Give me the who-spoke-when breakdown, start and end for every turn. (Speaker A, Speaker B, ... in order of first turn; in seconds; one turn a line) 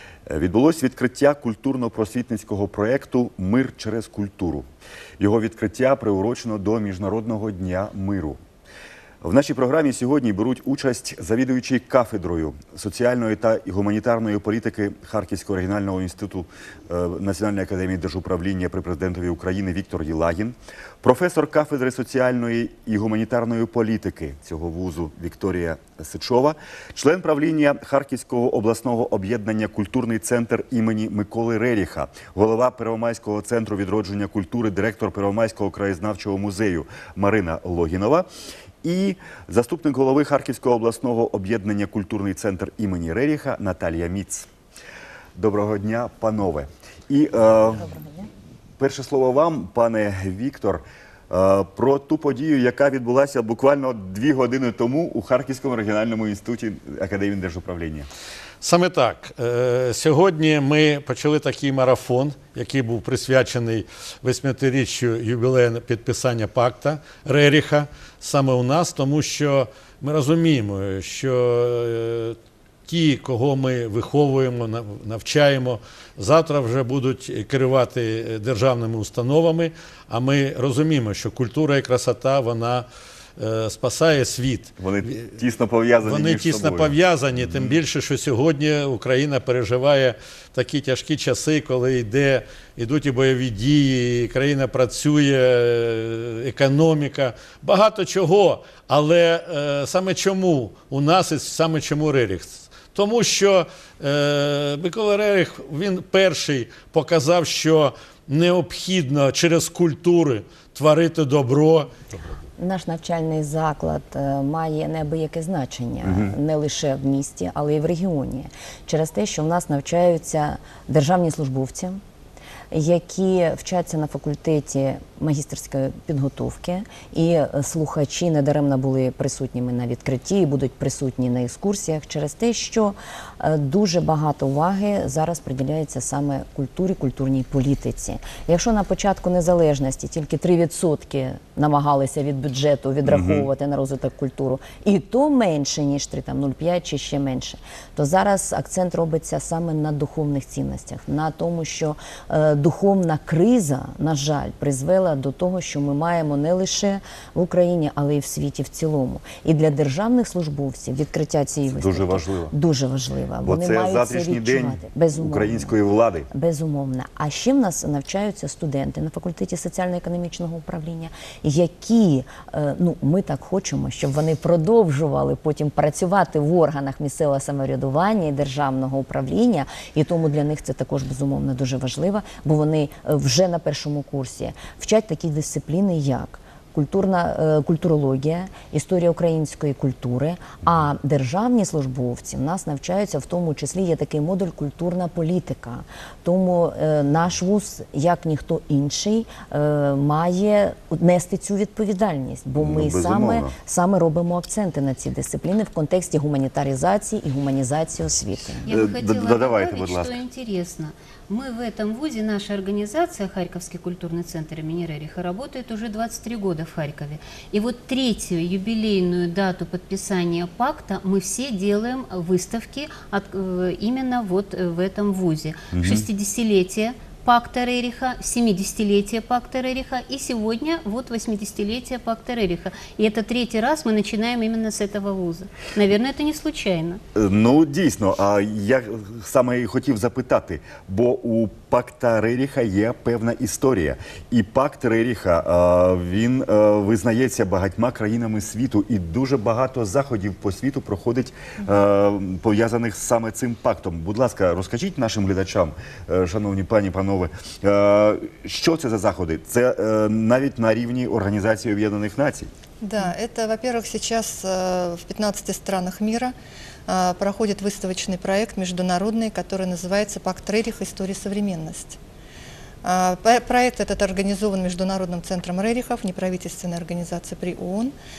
Speaker A: 0.3-4.7
Speaker A: 5.2-8.4
Speaker A: 9.2-38.3
Speaker A: 38.8-44.5
Speaker A: 45.4-48.2
Speaker A: 48.8-58.1
Speaker B: 58.6-85.3
Speaker A: 84.8-87.8
Speaker B: 86.0-112.3
Speaker C: 112.6-122.0
Speaker A: 116.0-116.3
Speaker C: 122.7-165.8
Speaker A: 143.1-143.5
Speaker A: 161.7-162.5
Speaker A: 163.4-166.3
Speaker C: 166.3-208.7
Speaker A: 202.6-203.6
Speaker D: 208.6-237.0
Speaker A: 208.7-210.2
Speaker A: 225.7-226.1
Speaker A: 237.2-262.5
Speaker E: 262.8-266.3
Speaker E: 266.9-272.0
Speaker E: 272.8-277.9